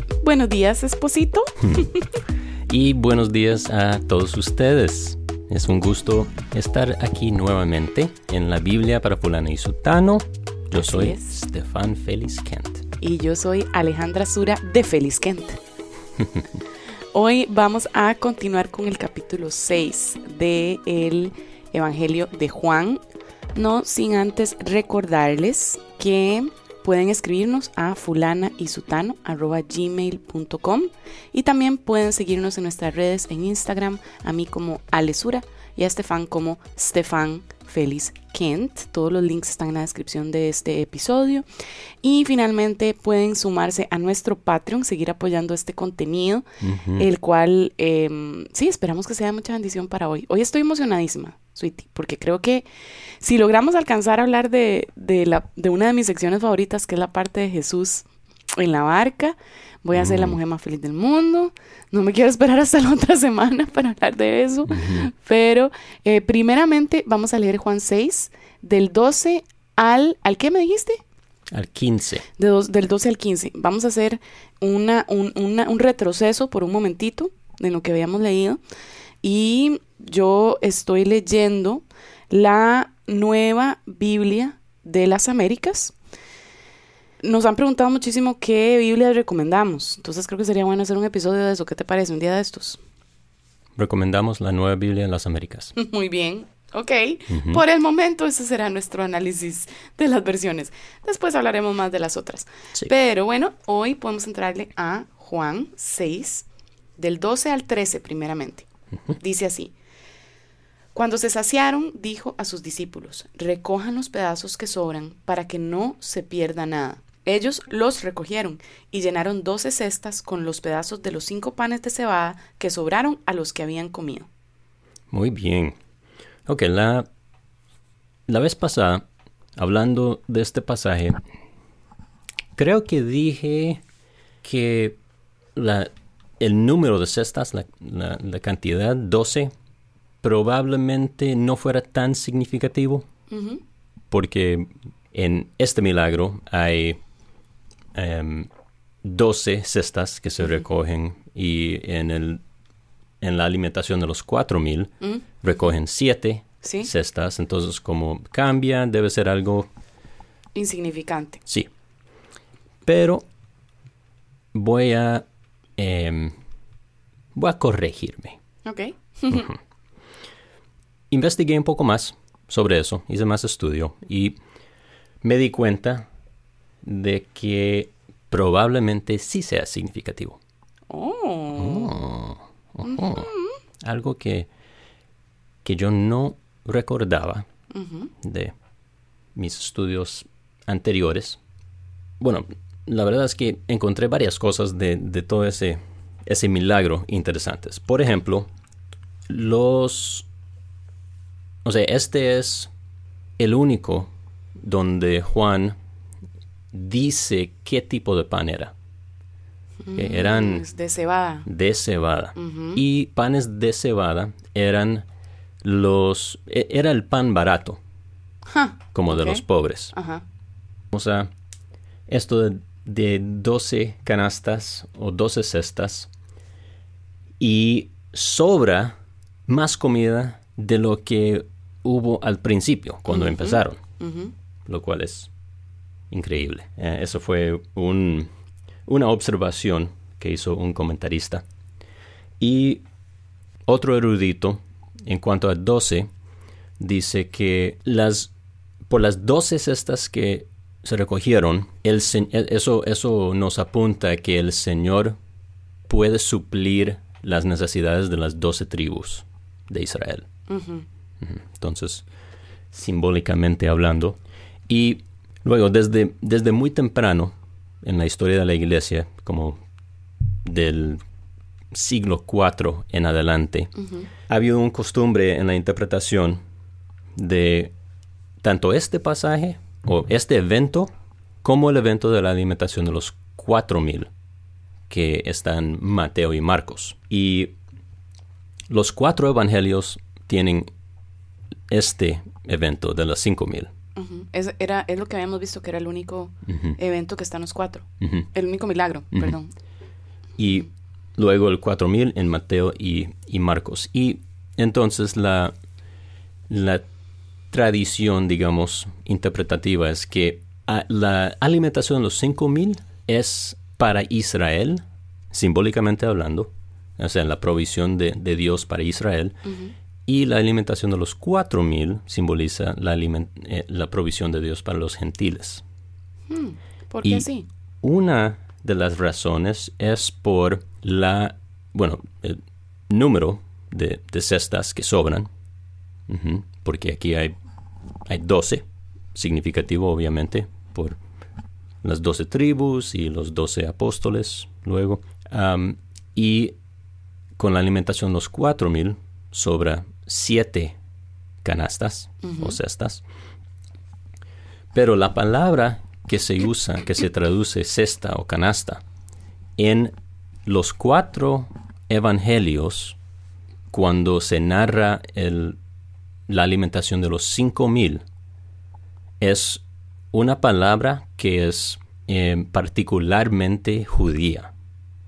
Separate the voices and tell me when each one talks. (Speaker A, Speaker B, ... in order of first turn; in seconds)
Speaker A: 0.2-2.1, 10.8-11.3, 13.0-15.6, 17.1-23.0, 23.6-41.5, 42.0-46.5, 47.0-52.7, 53.2-71.0, 72.4-78.6, 79.2-86.0, 87.2-92.8, 95.8-106.5, 107.0-109.7, 111.0-124.3, 143.3-143.6, 156.6-156.9, 160.6-161.4, 168.7-169.5, 180.9-182.0, 182.8-183.6, 187.7-188.1, 209.8-211.5, 212.3-212.8, 218.5-220.2, 233.1-234.3, 260.5-260.9, 273.8-274.1, 294.0-299.5, 319.5-319.7, 326.3-327.5, 352.2-352.6
Speaker B: 2.7-12.8, 46.6-47.0, 59.9-60.4, 64.7-65.1, 71.5-72.2, 93.8-95.8, 97.3-97.6, 125.1-125.8, 126.5-127.1, 128.3-129.0, 129.6-131.2, 132.6-133.8, 134.4-135.0, 135.6-139.5, 140.2-143.1, 144.1-147.0, 147.9-148.5, 149.0-152.4, 153.2-159.7, 162.9-163.2, 164.5-165.2, 165.8-166.3, 167.3-168.4, 171.1-174.4, 175.2-176.1, 176.8-180.4, 181.6-183.3, 183.8-184.5, 185.6-187.5, 188.2-188.5, 189.3-191.4, 192.2-198.5, 199.3-200.3, 201.6-202.7, 203.4-205.8, 206.7-208.7, 210.0-210.6, 211.5-215.1, 215.6-217.8, 218.9-219.9, 220.9-221.3, 222.1-226.1, 227.4-233.8, 234.7-235.3, 236.1-238.3, 238.9-241.4, 242.4-242.8, 243.7-246.1, 246.8-248.3, 248.9-255.2, 255.9-260.3, 261.2-262.1, 262.7-269.6, 270.4-271.0, 271.7-276.4, 277.1-277.7, 278.4-280.9, 281.4-284.1, 284.9-287.6, 288.7-290.7, 291.7-293.7, 296.5-296.8, 298.0-298.3, 300.4-305.6, 306.5-306.9, 307.5-319.5, 320.1-325.6, 327.8-335.3, 336.1-337.3, 338.1-338.6, 339.1-341.0, 341.8-346.6, 347.4-350.8, 351.4-353.0, 354.7-358.8, 359.6-359.9, 360.4-363.0, 363.7-365.6, 366.3-368.0, 369.2-374.5